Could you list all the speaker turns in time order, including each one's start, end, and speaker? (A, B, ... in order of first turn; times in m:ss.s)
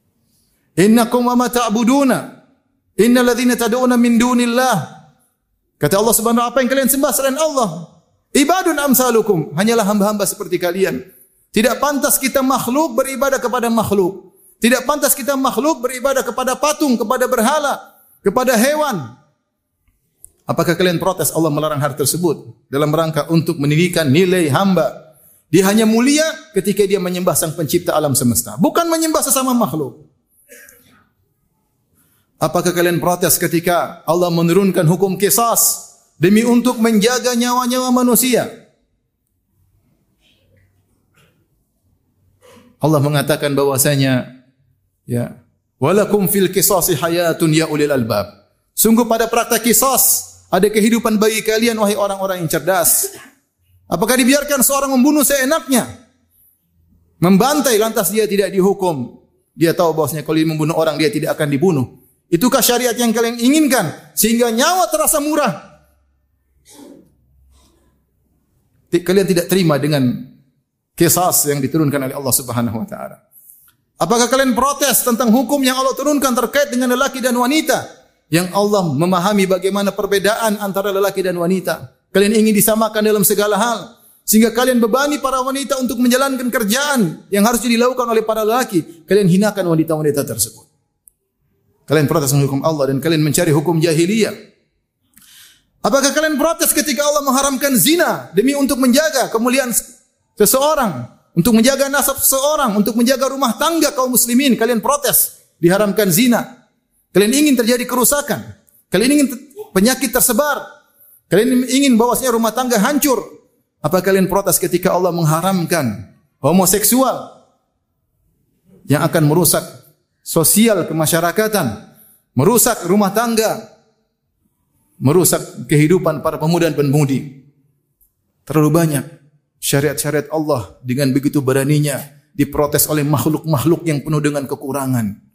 0:00.8-0:02.3 A
0:03.0-0:04.9 A
0:05.8-0:11.0 A
0:11.5-0:19.1 A
0:20.5-0:25.0 A
0:25.5-0:30.0 A
0:32.4-0:38.5 A
0:42.8-0:44.3 A
0:45.1-0:53.1 A
0:53.9-0:55.9 A
0:57.2-1:05.6 A
1:08.9-1:10.3 A
1:11.0-1:13.2 A
1:14.0-1:30.7 A
1:31.9-1:34.4 A
1:35.8-1:39.8 A
1:40.4-1:46.5 A
1:47.1-1:50.6 A
1:51.3-1:53.2 A
1:53.8-1:57.3 A
1:58.9-1:59.6 A
2:00.2-2:01.8 A
2:02.4-2:03.6 A
2:05.0-2:07.4 A
2:08.5-2:09.0 A
2:09.6-2:15.1 A